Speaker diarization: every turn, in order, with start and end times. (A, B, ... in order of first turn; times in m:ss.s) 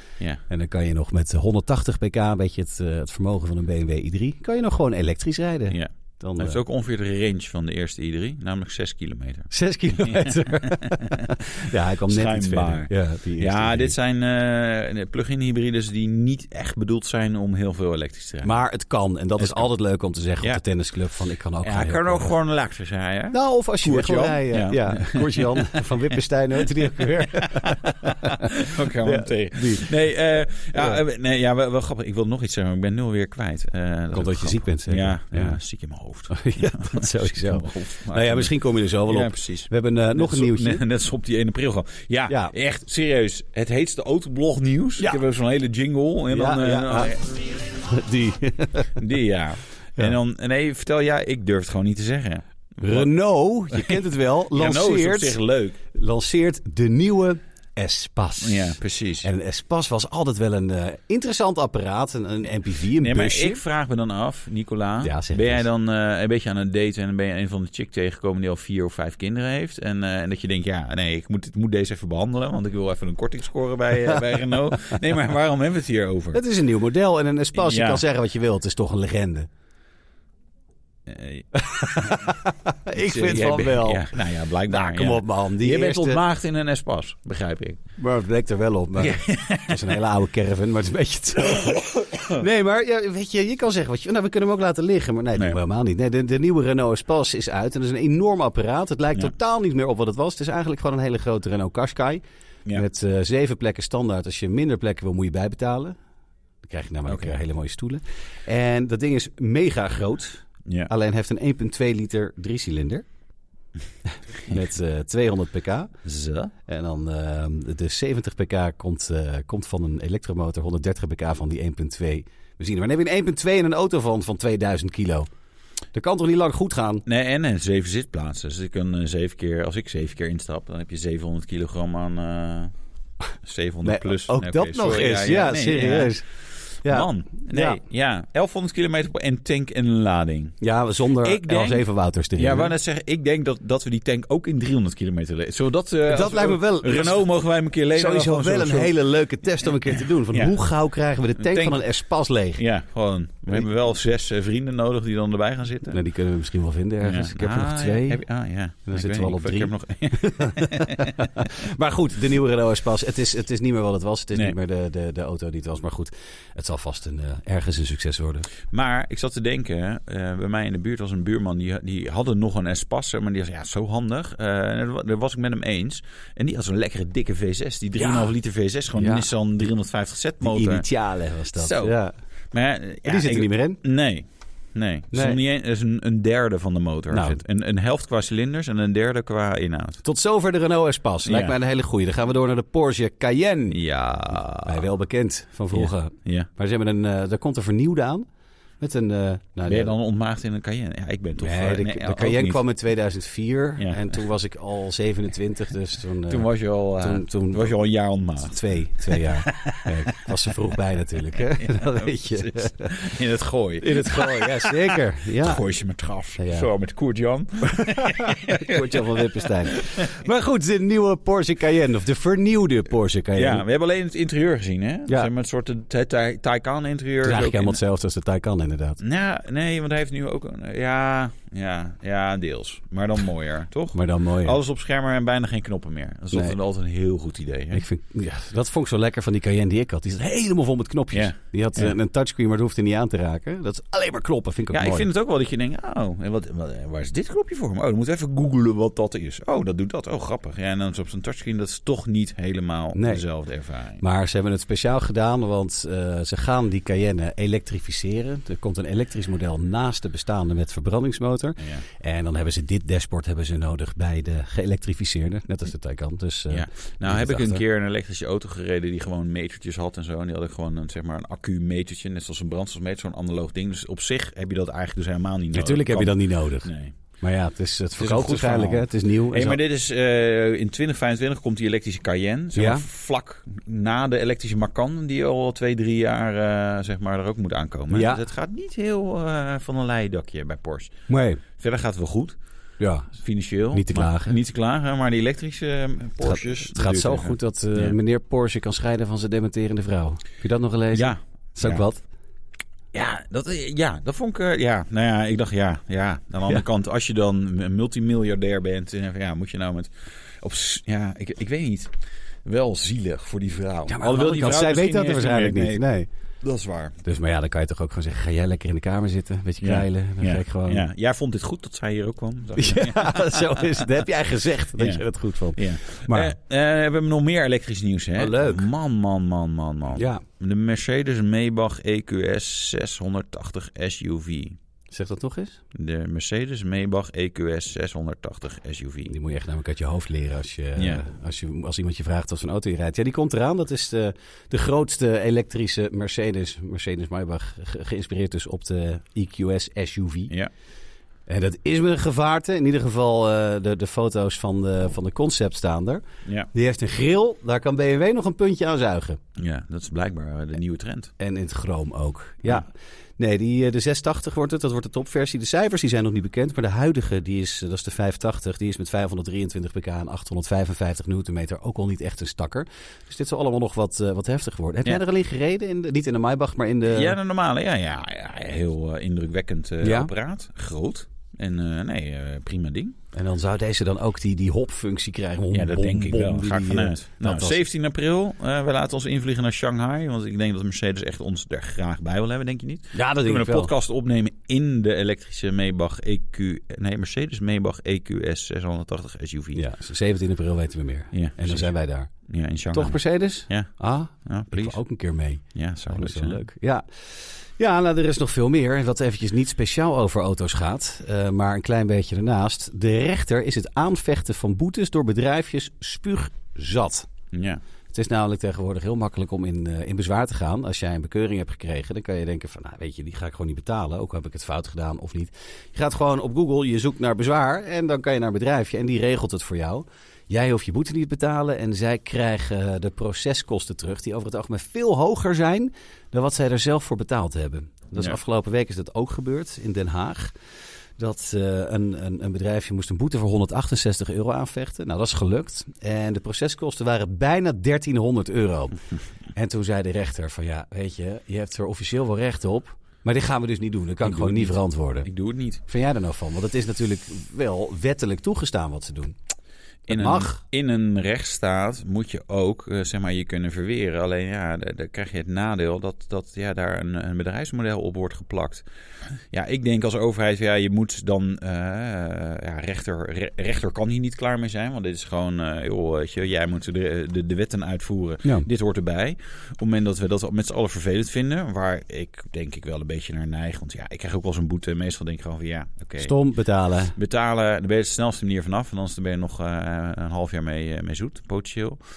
0:00.5-0:06.6 A
0:05.7-0:11.5 B
0:09.5-0:14.0 A
0:12.1-0:18.6 B
0:18.4-0:22.3 A
0:19.4-0:19.7 B
0:21.6-0:26.1 B
0:23.3-0:29.9 A
0:26.6-0:47.2 B
0:34.1-0:35.6 A
0:36.3-0:40.8 A
0:46.3-0:49.0 A
0:49.0-0:53.1 B
0:52.8-1:03.6 A
0:53.7-0:55.8 B
0:58.4-0:59.3 B
1:03.0-1:16.4 B
1:05.0-1:05.7 A
1:16.3-1:19.5 A
1:17.5-1:18.0 B
1:21.1-1:22.4 B
1:21.6-1:26.2 A
1:23.0-1:27.8 B
1:28.0-1:46.0 A
1:29.0-1:29.9 B
1:32.0-1:32.4 B
1:46.6-1:53.0 A
1:47.1-1:47.4 B
1:54.1-1:55.9 A
1:56.0-1:56.5 B
1:56.7-2:05.3 A
2:05.9-2:07.0 A
2:07.1-2:12.7 B
2:13.4-2:16.2 B
2:13.8-2:16.2 A
2:16.8-2:17.8 A
2:16.9-2:20.6 B
2:20.6-2:22.8 A
2:21.2-2:21.8 B
2:22.4-2:28.9 B
2:26.1-2:27.3 A
2:27.9-2:32.6 A
2:31.4-2:31.8 B
2:32.6-2:36.0 B
2:35.9-2:38.2 A
2:37.0-2:41.5 B
2:38.9-2:48.5 A
2:48.7-3:00.9 B
2:58.0-2:58.3 A
2:59.0-2:59.3 A
3:00.4-3:02.2 A
3:01.5-3:02.0 B
3:02.5-3:10.0 B
3:03.0-3:03.8 A
3:05.1-3:05.4 A
3:07.1-3:07.4 A
3:10.0-3:13.8 A
3:11.2-3:11.6 B
3:13.7-3:14.8 B
3:14.6-3:18.3 A
3:15.7-3:16.5 B
3:18.8-3:19.9 A
3:19.7-3:22.6 B
3:21.4-3:27.8 A
3:23.8-3:24.2 B
3:26.3-3:30.3 B
3:28.4-3:32.9 A
3:31.3-3:40.2 B
3:33.8-3:35.6 A
3:36.4-3:36.7 A
3:37.7-3:43.6 A
3:43.4-3:47.8 B
3:47.2-3:49.0 A
3:49.0-3:57.8 B
3:53.9-3:54.6 A
3:57.7-4:05.1 A
4:01.1-4:01.9 B
4:04.7-4:14.0 B
4:13.0-4:13.2 A
4:14.0-4:27.6 A
4:26.5-4:37.0 B
4:35.5-4:36.7 A
4:37.2-4:39.6 A
4:38.0-4:50.9 B
4:42.5-4:42.8 A
4:47.9-4:48.2 A
4:51.1-4:51.4 A
4:51.6-4:52.4 B
4:52.8-4:53.1 A
4:53.2-4:58.0 B
4:53.7-4:54.4 A
4:56.2-5:02.0 A
5:00.9-5:01.8 B
5:02.9-5:11.9 B
5:12.4-5:15.8 B
5:13.9-5:16.1 A
5:16.4-5:17.0 B
5:17.0-5:20.8 A
5:19.6-5:24.0 B
5:22.6-5:26.4 A
5:24.8-5:25.0 B
5:25.6-5:34.6 B
5:28.2-5:28.7 A
5:30.0-5:30.2 A
5:34.9-5:35.6 A
5:35.7-5:39.1 B
5:39.1-5:50.3 A
5:40.8-5:41.0 B
5:51.3-5:59.2 A
5:59.4-6:01.1 B
6:01.2-6:17.2 A
6:16.9-6:23.0 B
6:19.8-6:20.1 A
6:23.1-6:27.6 A
6:25.5-6:39.6 B
6:32.9-6:33.7 A
6:39.6-6:42.1 A
6:41.1-6:41.7 B
6:42.3-6:43.7 B
6:42.7-6:57.1 A
6:44.2-6:44.8 B
6:45.5-6:46.4 B
6:57.3-6:57.6 B
6:57.9-7:20.4 A
7:21.0-7:28.8 A
7:29.3-7:35.1 A
7:34.0-7:35.6 B
7:35.7-7:39.2 A
7:39.9-7:48.6 B
7:39.9-7:40.4 A
7:49.3-8:06.2 B
8:06.0-8:07.0 A
8:07.0-8:11.8 B